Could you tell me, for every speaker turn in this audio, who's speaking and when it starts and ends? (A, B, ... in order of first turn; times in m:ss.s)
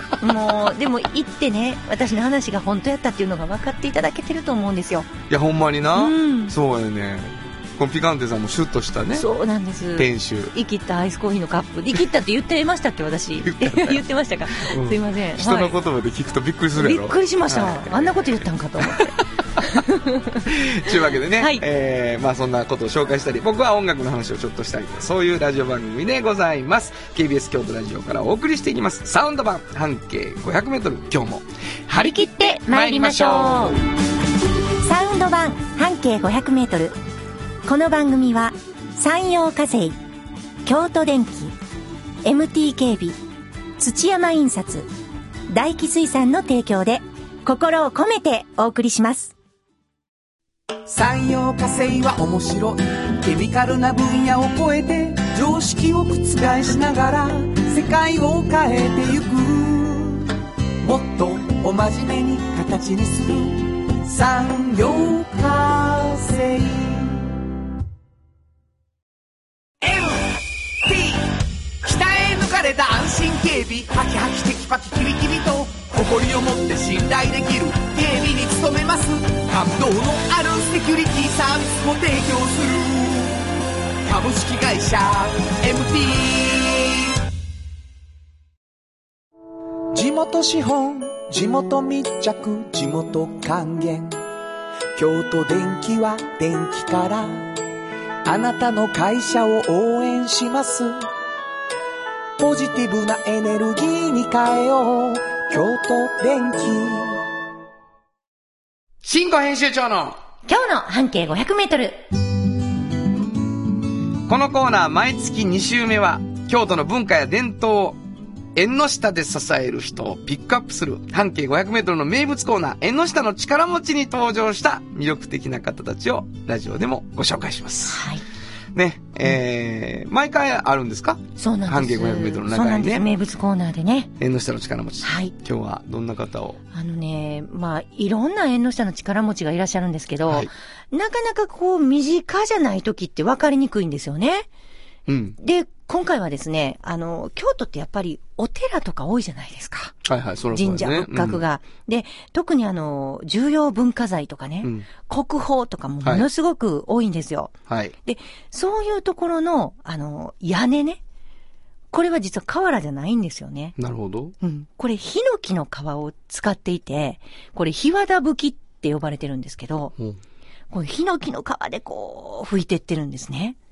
0:00.2-0:05.1 A
0:05.3-0:09.3 B
0:06.0-0:06.6 A
0:09.1-0:15.7 A
0:10.0-0:10.5 B
0:13.4-0:19.2 B
0:16.8-0:21.6 A
0:20.5-0:33.8 B
0:31.9-0:33.8 A
0:34.8-0:37.0 A
0:37.6-0:40.0 A
0:40.6-0:41.6 A
0:42.2-0:43.2 A
0:43.8-0:44.9 A
0:45.5-0:49.3 A
0:50.9-1:07.4 C
1:09.8-1:27.2 C
1:29.9-1:34.2 C
1:35.0-1:37.5 C
1:38.2-1:41.1 C
1:42.4-1:47.2 C
1:49.0-1:50.2 B
1:50.5-1:52.0 A
1:54.3-1:58.0 B
1:58.6-2:08.0 B
2:07.9-2:08.2 A
2:08.7-2:13.1 B
2:11.4-2:14.1 A
2:14.2-2:16.6 B
2:15.0-2:15.3 A
2:16.7-2:24.5 A
2:25.1-2:25.4 B
2:25.4-2:29.9 A
2:30.0-2:31.4 B
2:30.5-2:37.5 A
2:34.6-2:34.9 B
2:37.7-2:37.9 B
2:38.0-2:41.0 A
2:41.9-2:43.8 A
2:43.8-2:44.3 B
2:44.4-2:49.9 A
2:50.7-2:53.6 A